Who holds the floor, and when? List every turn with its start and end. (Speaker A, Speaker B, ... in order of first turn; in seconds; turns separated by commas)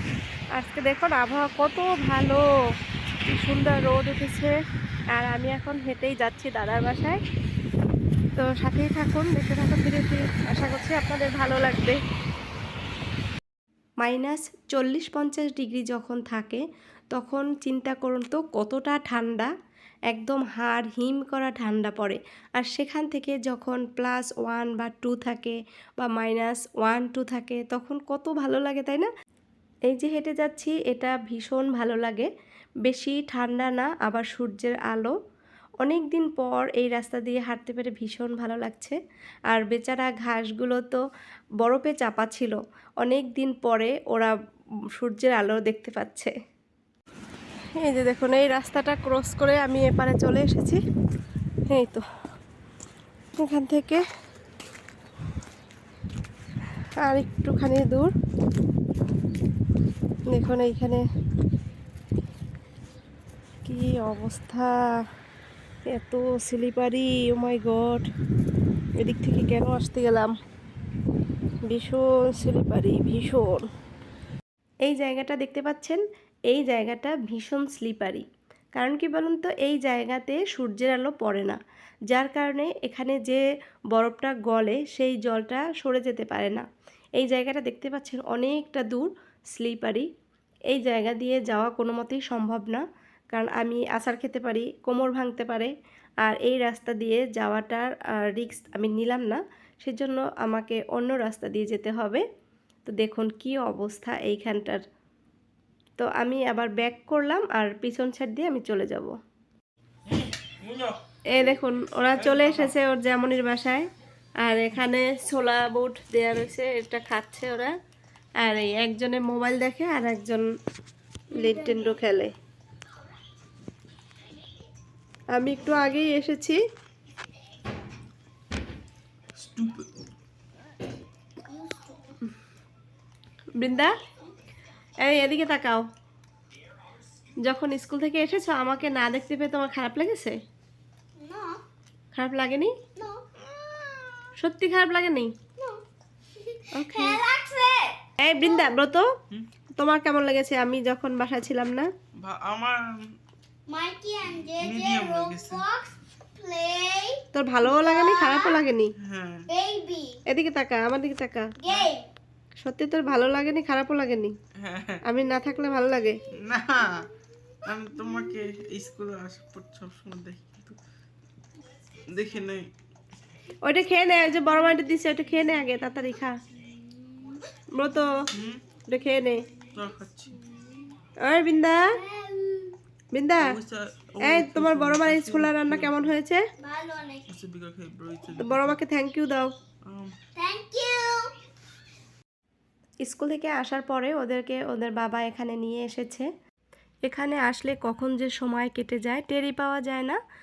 Speaker A: 0.6-2.4, Speaker A: 3.3-4.5, Speaker A: 5.1-7.2, Speaker A: 8.4-12.0, Speaker A: 14.0-19.5, Speaker A: 20.1-29.1, Speaker A: 29.9-32.3, Speaker A: 32.9-35.1, Speaker A: 35.8-39.0, Speaker A: 39.5-41.0, Speaker A: 41.6-44.3, Speaker A: 45.0-46.3, Speaker A: 47.8-50.8, Speaker A: 51.7-52.0, Speaker A: 53.4-54.0, Speaker A: 57.0-58.1, Speaker A: 60.3-61.0, Speaker A: 63.6-64.7, Speaker A: 65.9-68.1, Speaker A: 69.0-70.3, Speaker A: 71.7-73.7, Speaker A: 74.9-81.6, Speaker A: 82.1-83.4, Speaker A: 83.9-86.7, Speaker A: 87.2-90.1, Speaker A: 90.7-95.7, Speaker A: 96.2-102.2, Speaker A: 102.9-104.8, Speaker A: 106.0-109.1, Speaker B: 110.1-111.0, Speaker A: 111.3-113.9, Speaker B: 112.1-112.7, Speaker A: 114.4-117.7, Speaker A: 118.4-120.5, Speaker A: 121.3-122.3, Speaker C: 121.3-122.0, Speaker A: 125.3-126.6, Speaker B: 129.3-129.9, Speaker C: 131.5-132.2, Speaker A: 133.6-133.9, Speaker A: 135.0-135.8, Speaker A: 137.4-140.3, Speaker C: 141.2-141.6, Speaker A: 142.1-142.7, Speaker C: 142.9-143.2, Speaker A: 144.4-145.3, Speaker C: 145.6-145.8, Speaker C: 146.4-148.7, Speaker A: 146.7-147.2, Speaker A: 148.2-149.1, Speaker A: 149.8-151.9, Speaker B: 152.2-153.2, Speaker C: 153.7-158.6, Speaker B: 154.5-155.6, Speaker A: 157.3-158.9, Speaker B: 159.0-159.5, Speaker C: 159.5-160.2, Speaker A: 160.3-161.5, Speaker C: 161.6-162.1, Speaker A: 162.6-164.3, Speaker B: 164.6-165.0, Speaker A: 165.0-166.2, Speaker B: 166.3-167.1, Speaker B: 167.6-170.8, Speaker B: 172.1-172.7, Speaker A: 173.6-176.3, Speaker C: 177.1-177.4, Speaker A: 177.7-178.1, Speaker B: 178.3-178.6, Speaker A: 178.9-179.4, Speaker B: 179.7-180.4, Speaker A: 181.2-182.0, Speaker C: 181.9-182.8, Speaker A: 183.1-183.5, Speaker B: 183.4-186.1, Speaker A: 184.2-186.4, Speaker C: 186.6-187.2, Speaker B: 187.3-188.8, Speaker A: 188.4-189.5, Speaker B: 189.8-190.1, Speaker C: 190.3-191.3, Speaker A: 193.0-196.3, Speaker A: 197.0-200.2